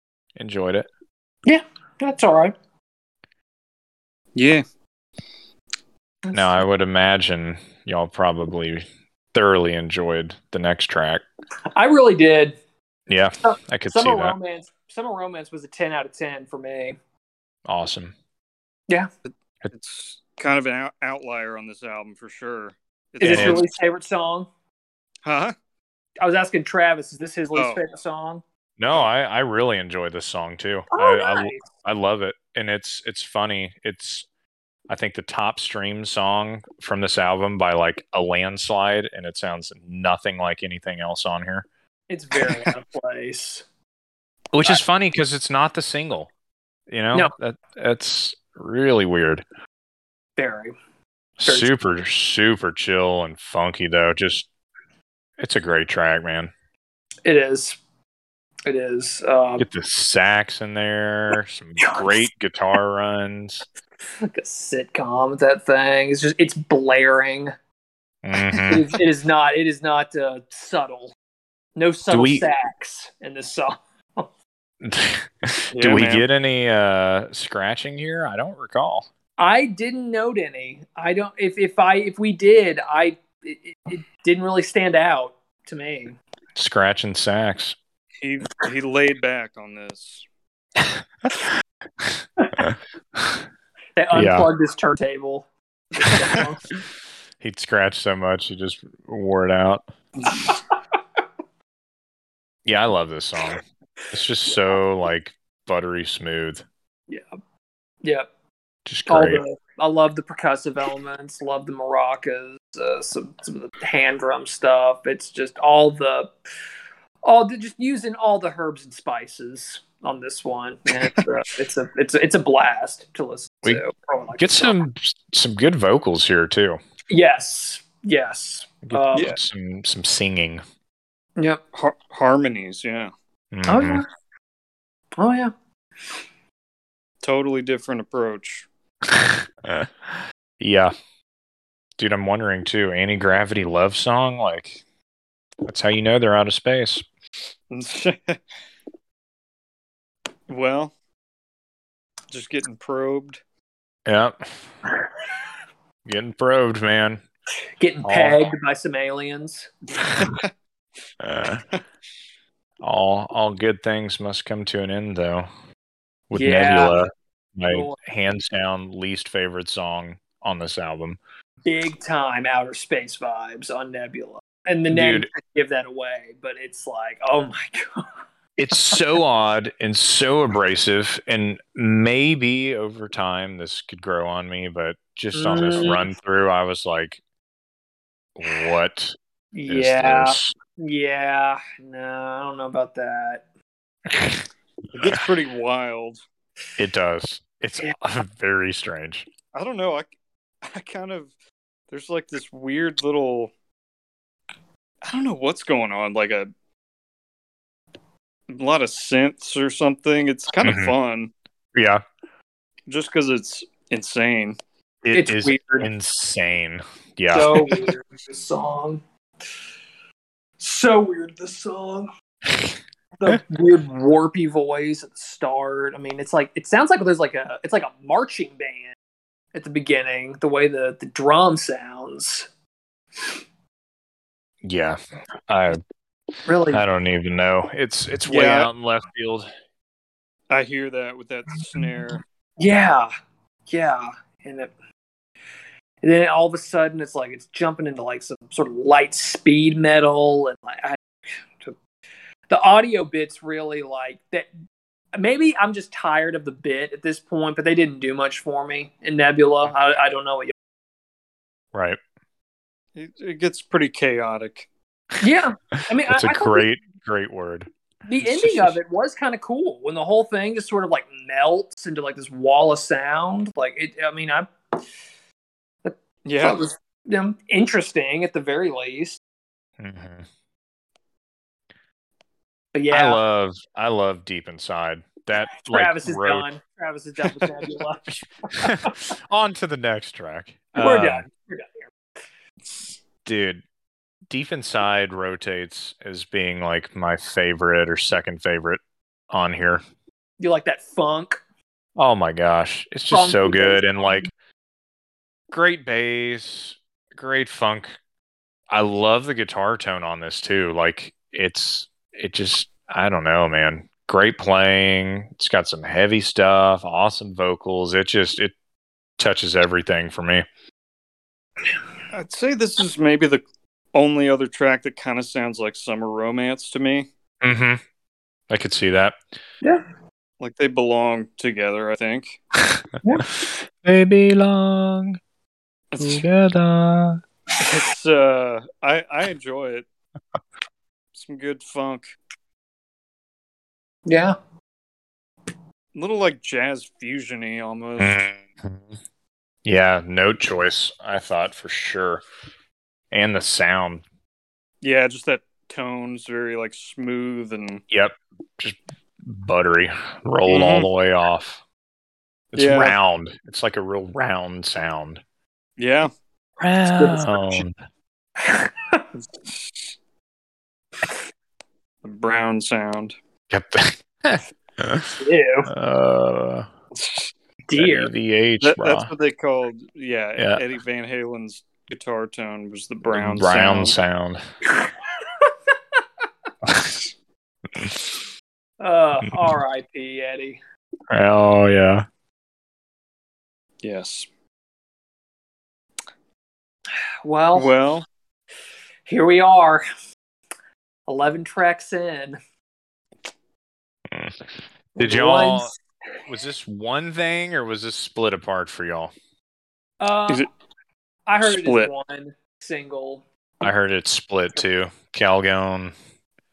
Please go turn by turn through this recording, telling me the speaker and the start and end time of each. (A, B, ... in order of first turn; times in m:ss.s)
0:00.4-0:00.9 A
0:01.4-0:02.5 B
0:04.3-0:04.6 C
0:06.2-0:06.6 B
0:06.3-0:11.2 A
0:11.8-0:12.6 B
0:13.1-0:14.3 A
0:13.4-0:17.0 B
0:17.6-0:18.1 A
0:19.7-0:23.6 C
0:23.2-0:24.5 B
0:23.2-0:23.6 A
0:25.2-0:25.5 C
0:26.2-0:28.4 B
0:27.5-0:27.8 C
0:28.8-0:34.2 A
0:30.9-0:31.6 B
0:34.9-0:41.7 A
0:42.1-0:43.6 B
0:44.5-0:46.3 A
0:46.9-0:49.4 A
0:50.4-0:50.7 B
0:51.4-0:54.5 A
0:55.4-0:56.5 A
0:57.2-0:57.8 B
0:58.7-0:59.7 B
0:59.6-1:03.6 A
1:01.8-1:02.2 B
1:04.3-1:07.5 B
1:08.2-1:08.9 A
1:08.6-1:11.1 B
1:11.8-1:14.3 B
1:12.1-1:12.5 A
1:14.8-1:19.1 A
1:15.7-1:16.2 C
1:19.4-1:26.2 B
1:26.6-1:27.8 A
1:28.2-1:30.2 C
1:32.0-1:33.4 A
1:32.4-1:32.7 B
1:34.0-1:36.6 B
1:34.1-1:34.5 A
1:37.4-1:39.8 A
1:42.6-1:46.6 A
1:48.0-1:48.3 B
1:48.8-1:49.4 A
1:49.1-1:56.3 B
1:57.2-2:04.8 B
2:04.4-2:06.8 A
2:07.1-2:09.4 B
2:08.8-2:10.6 A
2:11.7-2:13.1 C
2:13.5-2:14.0 A
2:13.7-2:14.1 B
2:15.2-2:15.5 B
2:17.2-2:18.6 C
2:19.1-2:20.9 A
2:22.0-2:24.8 A
2:25.6-2:27.0 A
2:27.7-2:28.4 C
2:30.5-2:30.9 C
2:32.3-2:33.4 C
2:34.0-2:34.4 A
2:36.0-2:37.2 A
2:37.8-2:39.7 B
2:38.0-2:38.4 A
2:40.0-2:40.5 C
2:41.2-2:41.6 A
2:42.8-2:45.5 A
2:46.3-2:51.2 A
2:46.3-2:47.0 B
2:47.6-2:48.0 B
2:51.6-2:58.0 B
2:54.9-2:55.3 A
2:58.6-3:07.2 A
3:05.3-3:06.1 B
3:08.4-3:09.2 A
3:09.5-3:13.4 B
3:09.7-3:10.5 A
3:14.1-3:14.4 A
3:14.9-3:16.2 C
3:15.0-3:15.2 A
3:16.8-3:19.2 A
3:19.5-3:20.1 C
3:20.6-3:21.3 C
3:21.9-3:23.5 C
3:25.0-3:26.5 C
3:28.5-3:31.3 C
3:30.6-3:30.9 A
3:31.7-3:32.0 A
3:32.9-3:34.6 C
3:35.0-3:37.9 A
3:35.1-3:35.9 B
3:37.3-3:39.0 B
3:40.6-3:42.1 B
3:42.4-3:42.8 A
3:43.2-3:48.9 B
3:49.5-3:52.5 B
3:54.6-3:55.0 A
3:55.5-3:55.8 A
3:56.4-3:56.8 B
3:56.7-3:59.5 A
3:58.3-3:58.7 C
4:00.5-4:02.2 C
4:02.6-4:03.1 B
4:03.7-4:04.7 B
4:06.0-4:11.8 B
4:12.5-4:14.5 B
4:15.1-4:20.5 B
4:21.7-4:22.0 A
4:22.9-4:24.7 C
4:25.2-4:26.6 B
4:26.1-4:27.7 A
4:28.0-4:34.8 B
4:28.2-4:28.7 A
4:35.8-4:39.2 B
4:36.2-4:36.6 C
4:39.8-4:40.2 A
4:42.7-4:43.2 B
4:42.9-4:46.5 A
4:45.6-4:49.0 B
4:48.6-4:51.2 A
4:50.8-4:51.9 B
4:53.2-4:53.6 A
4:54.3-4:59.8 A
5:00.4-5:01.4 B
5:02.0-5:04.3 A
5:03.1-5:04.3 B
5:05.5-5:08.0 A
5:08.7-5:18.5 A
5:19.2-5:20.4 A
5:22.1-5:23.4 C
5:23.9-5:27.1 C
5:27.4-5:27.8 A
5:28.5-5:29.2 A
5:30.4-5:32.4 C
5:32.7-5:35.2 A
5:33.0-5:33.3 B
5:35.9-5:36.2 C
5:36.0-5:37.2 A
5:37.6-5:39.8 C
5:41.1-5:42.1 C
5:44.0-5:44.4 B
5:45.9-5:48.2 C
5:48.0-5:48.9 A
5:49.6-5:52.2 A
5:53.1-5:54.0 A
5:54.8-5:57.8 C
5:57.9-6:01.6 A
6:00.5-6:00.9 C
6:02.5-6:05.2 A
6:02.5-6:03.0 C
6:05.8-6:06.1 C
6:06.6-6:07.7 A
6:06.8-6:07.6 B
6:08.4-6:09.0 B
6:09.1-6:09.9 C
6:12.0-6:13.2 C
6:13.5-6:15.2 A
6:15.2-6:15.7 B
6:15.7-6:16.7 A
6:16.9-6:17.3 C
6:17.7-6:18.1 B
6:17.8-6:19.1 A
6:18.6-6:24.0 C
6:20.4-6:20.6 A
6:23.1-6:24.4 A
6:24.7-6:25.5 B
6:26.6-6:27.0 A
6:27.8-6:28.2 A
6:28.8-6:30.6 B
6:31.1-6:32.0 A
6:33.8-6:34.3 C
6:37.2-6:37.7 B
6:37.5-6:38.0 C
6:39.0-6:39.8 B
6:41.1-6:42.4 B
6:44.1-6:45.7 A
6:45.0-6:45.8 B
6:46.3-6:49.1 A
6:50.0-6:50.4 B
6:51.3-6:53.2 B
6:51.4-6:51.9 C
6:53.6-6:55.9 A